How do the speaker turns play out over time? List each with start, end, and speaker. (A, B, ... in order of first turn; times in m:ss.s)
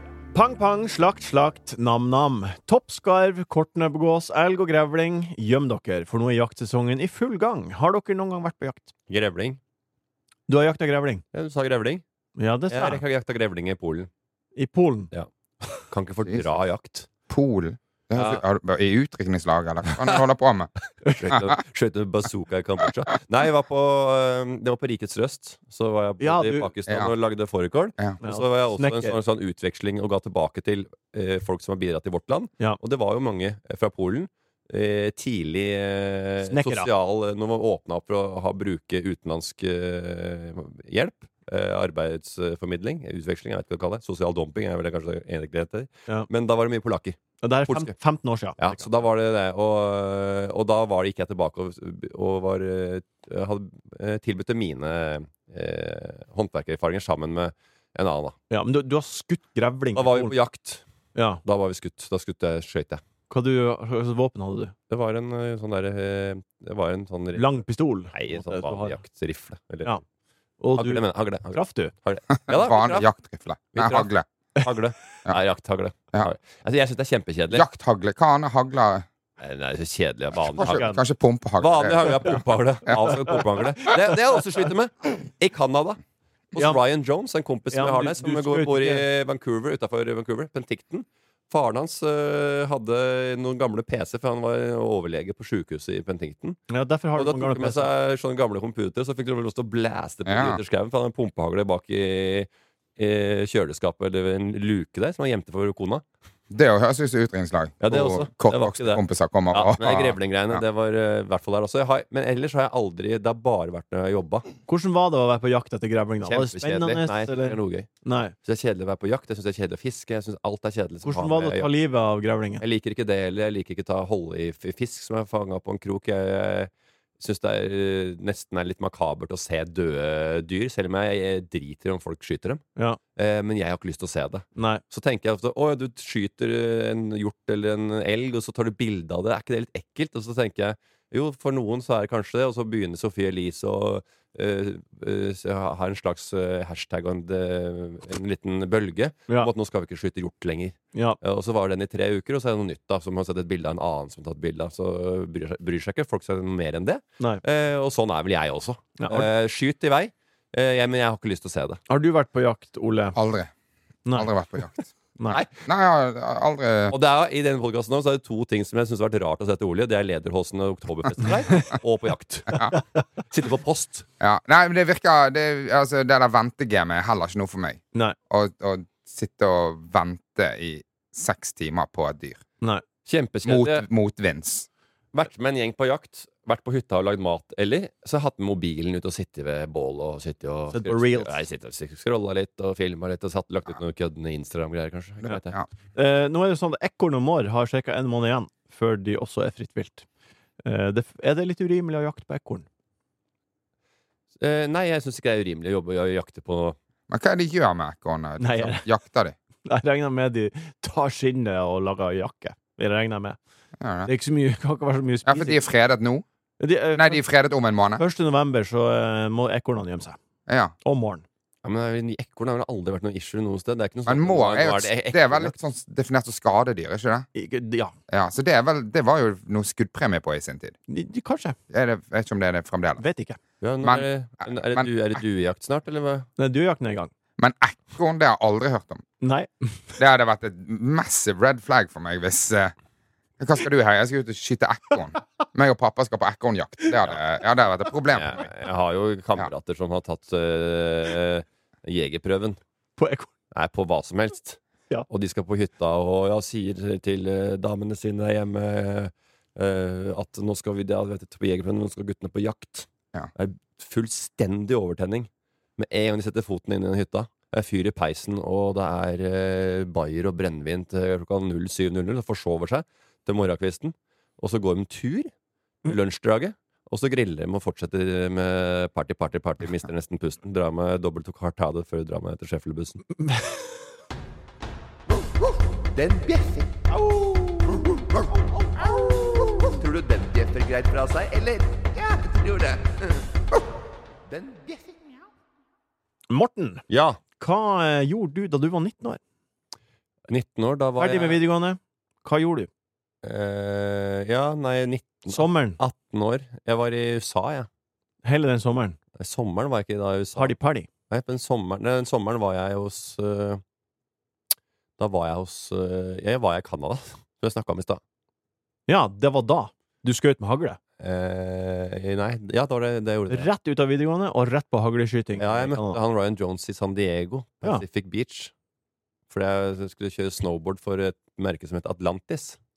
0:00.3-0:08.9 A
0:09.1-0:09.6 B
0:10.5-0:11.2 A
0:11.3-0:12.0 B
0:12.4-0:13.0 A
0:12.7-0:14.1 B
0:14.6-0:15.1 A
0:15.1-0:17.1 B
0:17.3-0:20.7 C
0:18.1-0:18.4 B
0:21.2-0:47.9 B
0:26.2-0:26.7 A
0:28.2-0:29.2 A
0:36.4-0:36.9 A
0:47.4-0:48.9 A
0:48.6-0:58.4 B
0:58.5-1:00.3 A
0:59.9-1:00.8 B
1:01.1-1:01.4 A
1:01.4-1:03.0 B
1:03.3-1:04.7 A
1:04.9-1:07.5 B
1:07.3-1:09.0 A
1:08.1-1:09.9 B
1:10.6-1:11.9 A
1:10.8-1:13.1 B
1:12.5-1:14.2 C
1:13.7-1:17.6 B
1:17.5-1:19.0 C
1:19.4-1:20.9 B
1:20.6-1:21.0 A
1:20.6-1:23.2 C
1:21.6-1:26.0 B
1:26.5-1:36.6 B
1:27.7-1:29.0 A
1:36.7-1:37.9 A
1:37.2-1:46.0 B
1:40.2-1:40.6 C
1:46.5-1:50.6 C
1:47.8-1:54.4 B
1:54.7-1:58.3 A
1:56.2-1:57.9 B
1:58.4-2:01.7 B
2:01.0-2:02.6 A
2:02.6-2:12.6 B
2:13.2-2:41.8 B
2:14.6-2:14.8 A
2:39.0-2:39.3 A
2:41.9-2:43.2 A
2:43.1-2:43.5 C
2:44.0-2:44.3 A
2:44.1-2:44.9 C
2:45.6-2:47.0 C
2:46.9-2:52.6 B
2:53.3-2:54.0 B
2:54.2-3:02.4 C
3:03.0-3:03.8 B
3:03.4-3:04.7 C
3:05.1-3:15.6 B
3:10.7-3:11.3 A
3:15.9-3:20.0 A
3:20.6-3:22.6 A
3:24.4-3:26.8 B
3:27.1-3:29.4 C
3:28.4-3:28.8 A
3:29.6-3:33.4 A
3:33.8-3:34.1 C
3:34.0-3:35.6 A
3:35.2-3:36.2 C
3:36.6-3:37.2 A
3:36.9-3:38.0 C
3:38.0-3:40.2 A
3:40.5-3:40.7 C
3:40.8-3:41.2 A
3:41.6-3:45.5 B
3:44.0-3:47.3 C
3:47.3-3:47.9 A
3:48.1-3:50.7 C
3:50.9-3:51.6 A
3:51.7-3:53.0 C
3:53.0-3:53.4 A
3:53.6-3:56.3 B
3:53.8-3:54.9 C
3:56.4-3:57.1 A
3:57.4-3:59.0 C
3:59.2-4:00.0 A
4:00.0-4:02.7 C
4:03.4-4:08.4 C
4:08.1-4:12.6 B
4:13.0-4:13.3 A
4:13.5-4:35.3 B
4:35.8-4:43.1 B
4:43.2-4:43.6 A
4:45.9-4:46.6 D
4:49.7-4:53.0 D
4:54.3-4:54.8 D
4:56.3-4:56.8 A
4:56.9-4:57.2 B
4:57.4-4:59.2 A
5:00.3-5:01.4 B
5:01.0-5:02.7 A
5:03.2-5:07.7 B
5:05.3-5:05.8 A
5:08.2-5:09.0 A
5:09.2-5:10.5 B
5:10.4-5:10.9 A
5:11.1-5:13.6 B
5:15.0-5:18.0 B
5:18.9-5:20.8 A
5:21.0-5:23.5 B
5:23.3-5:26.0 A
5:25.4-5:28.5 B
5:29.3-5:32.6 B